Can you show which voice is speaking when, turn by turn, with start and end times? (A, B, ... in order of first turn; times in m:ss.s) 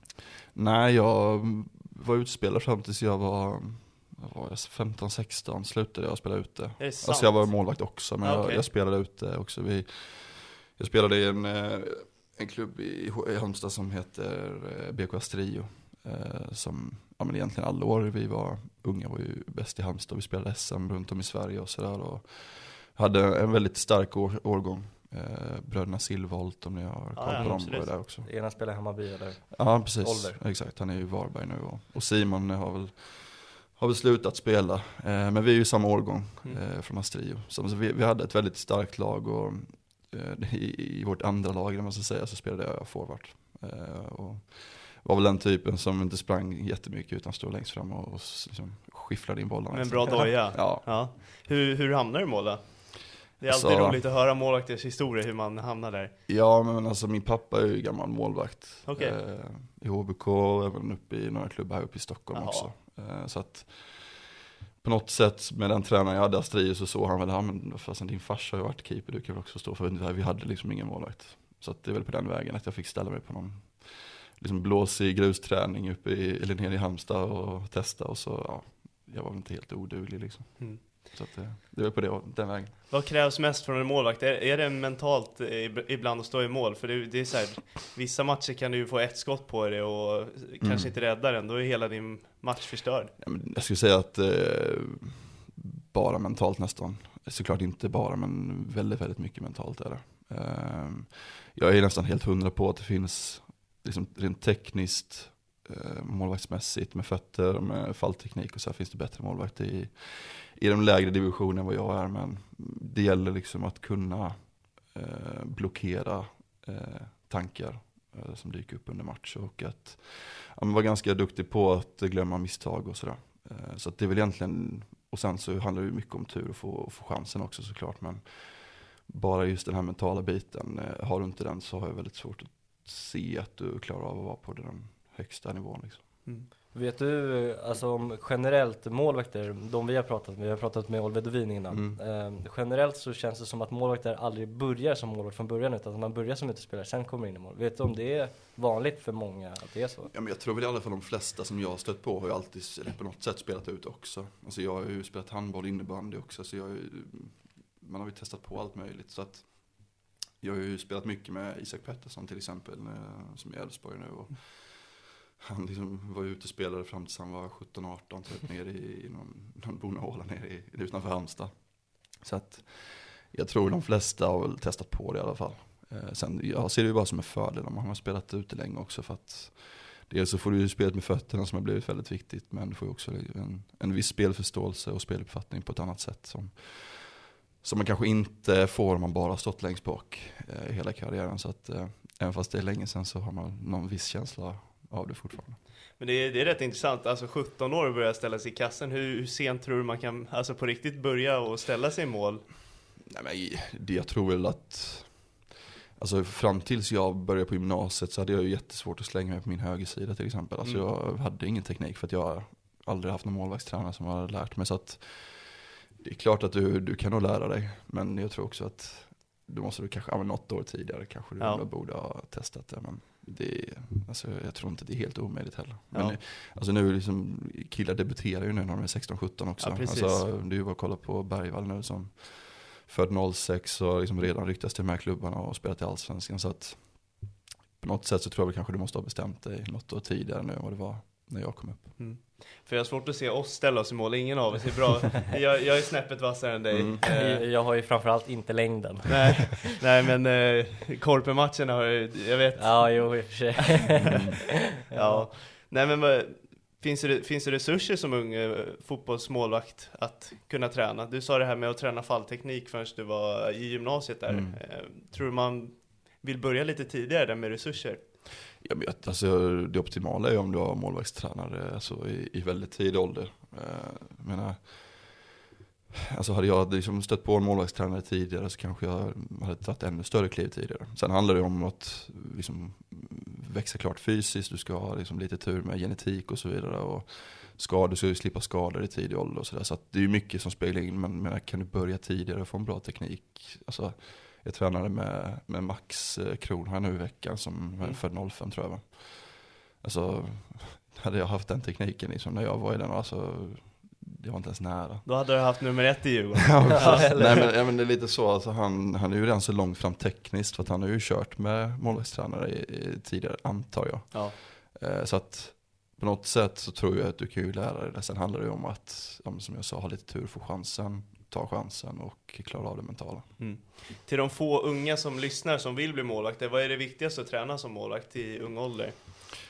0:00.5-0:28.3 A
0:06.8-0:08.6 B
0:27.2-0:27.9 B
0:27.4-0:27.6 C
0:28.2-0:30.4 C
0:29.5-0:51.0 A
0:49.7-0:56.1 B
0:53.4-0:54.0 A
0:56.2-1:22.8 A
0:58.9-0:59.2 B
1:02.3-1:02.7 B
1:20.6-1:21.1 B
1:22.9-1:33.1 B
1:30.6-1:30.9 A
1:33.2-2:16.2 A
2:16.7-2:30.1 C
2:21.7-2:22.0 A
2:30.1-3:15.6 A
3:16.0-3:22.5 B
3:23.1-4:02.0 A
3:41.4-3:41.6 B
3:45.9-3:46.2 B
3:49.6-3:50.3 B
4:02.0-4:07.5 B
4:06.7-4:07.0 A
4:07.0-4:09.6 C
4:09.1-4:13.5 B
4:12.6-4:14.2 C
4:14.1-4:14.4 A
4:14.9-4:15.3 C
4:14.9-4:28.2 B
4:24.3-4:24.6 A
4:28.6-4:35.3 A
4:36.1-5:05.3 A
5:05.0-5:07.5 B
5:06.5-5:23.4 A
5:06.8-5:07.4 C
5:23.4-5:28.9 B